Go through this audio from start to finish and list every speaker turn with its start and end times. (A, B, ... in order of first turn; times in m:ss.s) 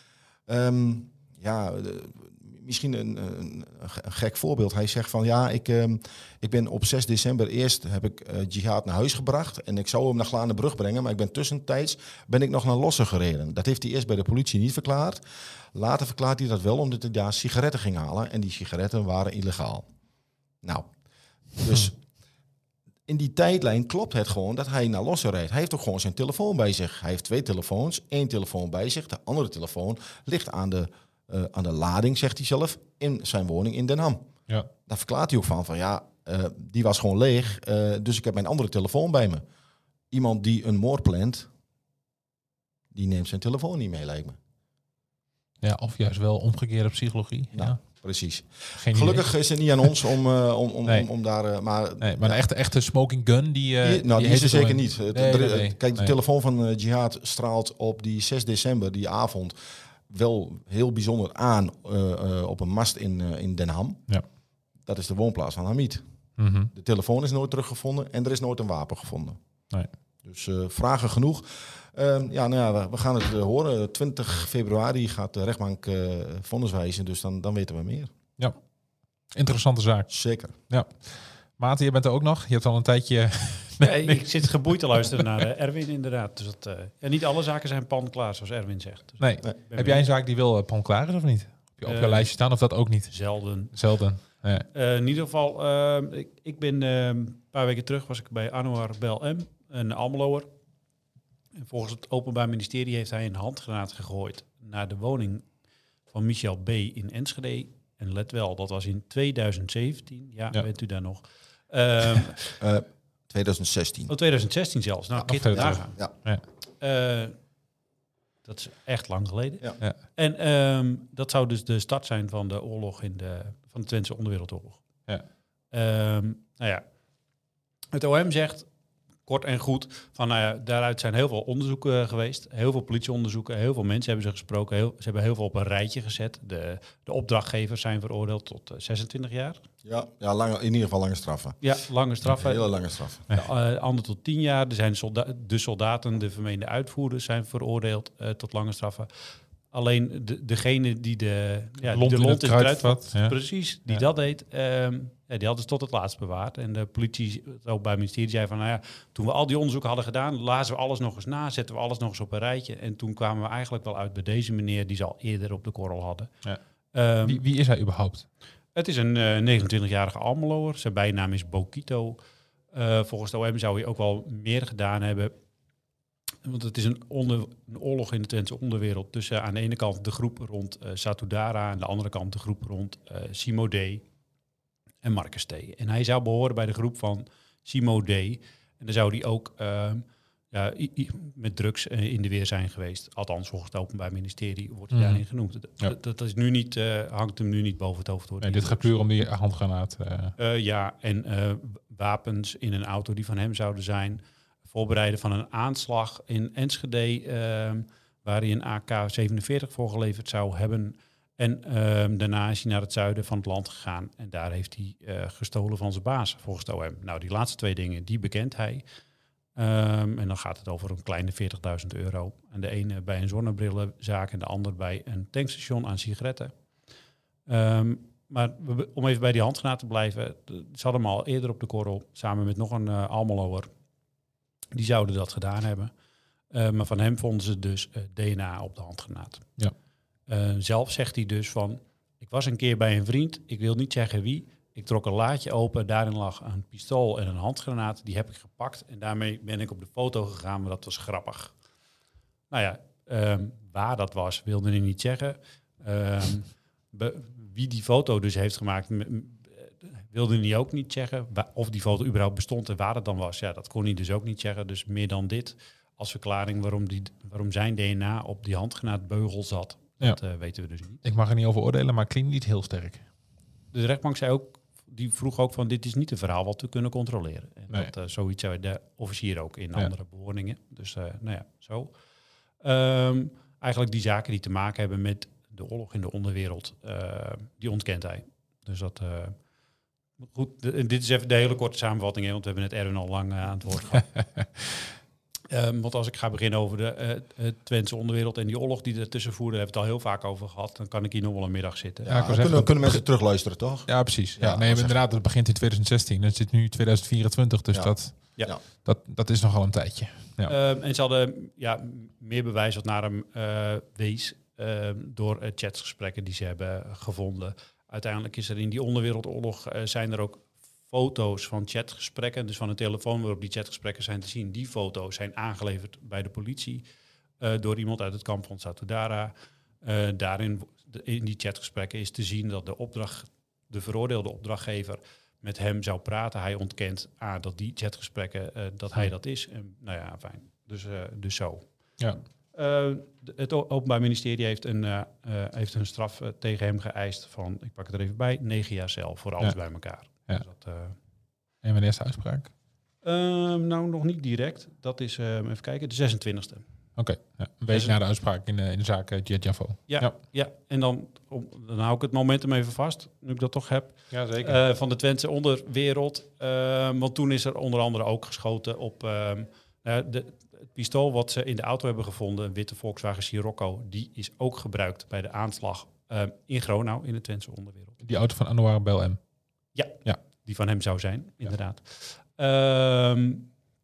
0:00.5-0:15.2 A
0:15.7-0:19.9 A
0:20.6-0:20.9 A
0:21.5-0:22.0 A
0:23.1-0:34.3 A
0:34.9-0:39.4 A
0:40.1-0:41.5 A
0:42.9-0:44.4 A
0:45.6-0:47.8 B
0:47.5-0:52.4 A
0:48.8-0:49.2 B
0:52.0-0:56.1 B
0:53.8-0:59.6 A
1:00.1-1:04.0 A
1:04.8-1:06.0 A
1:06.4-1:06.7 B
1:06.7-1:09.4 A
1:10.2-1:18.1 A
1:19.3-1:24.2 B
1:20.1-1:20.6 A
1:23.8-1:30.1 C
1:29.2-1:34.7 B
1:31.8-1:32.4 C
1:33.1-1:33.7 C
1:34.7-1:40.5 C
1:41.6-1:45.5 C
1:46.1-1:52.4 C
1:52.6-1:54.1 A
1:54.1-1:56.0 C
1:55.2-1:56.1 A
1:55.3-1:56.4 B
1:56.8-1:57.4 C
1:58.4-2:04.8 C
2:05.7-2:06.8 C
2:07.9-2:08.7 C
2:09.2-2:19.6 C
2:19.8-2:21.6 A
2:21.6-2:22.7 C
2:22.2-2:23.2 A
2:23.3-2:46.3 C
2:31.9-2:33.4 B
2:46.9-2:47.4 C
2:47.2-2:48.3 B
2:48.7-2:52.2 C
2:52.7-2:55.3 C
2:56.4-3:04.0 C
3:05.0-3:19.0 C
3:14.9-3:15.2 B
3:18.4-3:20.4 B
3:20.4-3:38.8 C
3:39.5-3:46.6 C
3:47.5-3:53.7 C
3:54.7-3:55.9 C
3:56.5-3:59.6 C
4:00.3-4:11.6 C
4:12.5-4:31.0 C
4:31.0-4:33.0 B
4:33.7-4:41.9 C
4:42.6-4:49.4 C
4:50.3-4:54.1 C
4:54.1-4:54.7 B
4:55.5-5:02.1 C
5:02.0-5:05.0 A
5:02.1-5:03.2 B
5:03.9-5:10.5 B
5:07.7-5:08.6 A
5:10.5-5:26.8 C
5:27.4-5:51.0 C
5:49.4-5:50.4 B
5:51.6-5:52.5 B
5:53.0-5:56.6 C
5:57.0-6:00.2 B
5:57.7-5:58.0 C
5:59.9-6:18.0 C
6:04.1-6:04.6 B
6:18.0-6:19.2 B
6:19.7-6:20.2 B
6:19.7-6:23.5 C